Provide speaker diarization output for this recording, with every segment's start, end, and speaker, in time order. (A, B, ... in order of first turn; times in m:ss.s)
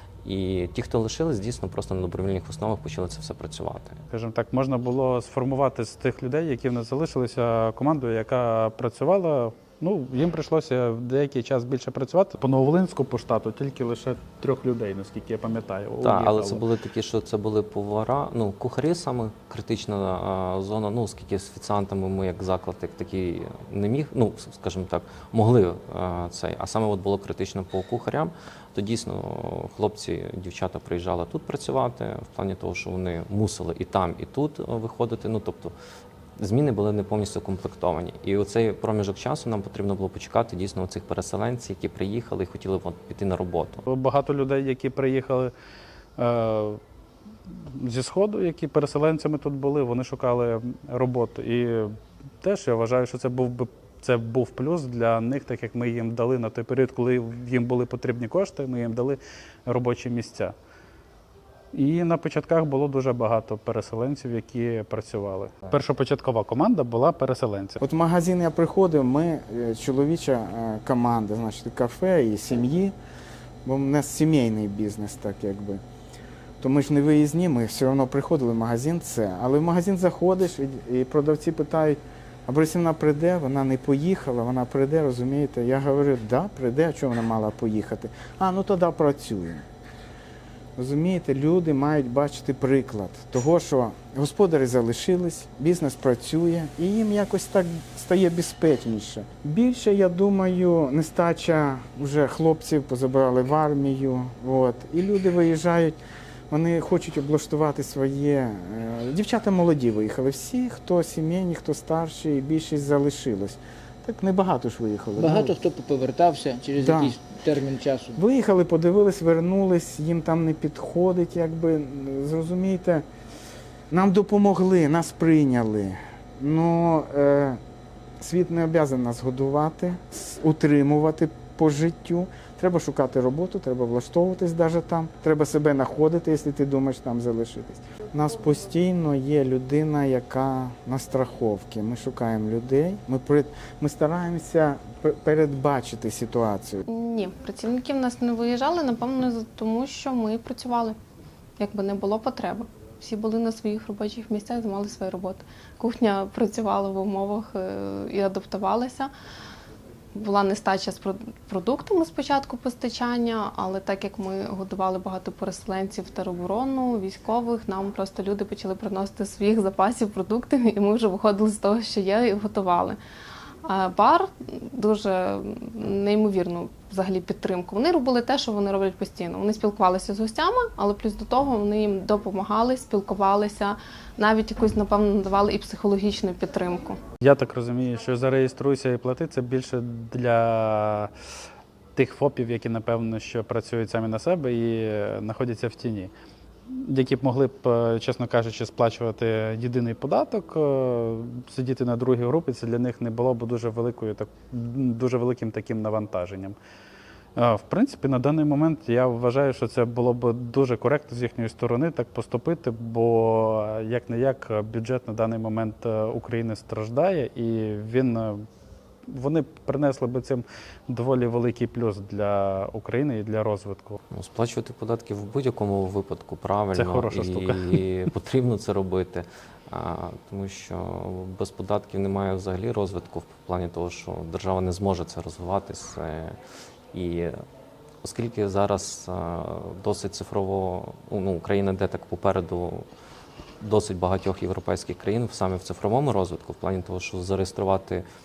0:00.2-0:04.0 A
0:04.1-0:16.7 B
0:16.0-0:35.7 A
0:36.4-0:43.8 A
0:43.9-0:45.5 B
0:46.2-0:46.8 B
0:47.5-1:00.6 B
1:01.7-1:07.8 B
1:07.8-1:12.9 C
1:13.6-1:15.8 C
1:16.6-1:29.7 C
1:30.8-1:46.0 C
1:46.5-1:55.5 C
1:55.2-1:58.2 D
1:56.8-1:57.2 C
1:58.2-2:03.1 C
2:03.9-2:07.6 C
2:08.2-2:26.8 C
2:26.9-2:31.0 E
2:31.6-2:39.1 E
2:40.2-2:53.0 E
2:53.6-3:07.0 E
3:07.2-3:11.1 B
3:12.0-3:16.1 B
3:16.7-3:26.6 B
3:27.4-3:38.5 B
3:39.1-3:44.0 B
3:44.1-3:56.4 A
3:46.8-3:47.8 B
3:56.9-3:57.4 A
3:58.0-4:02.8 A
4:03.6-4:08.0 A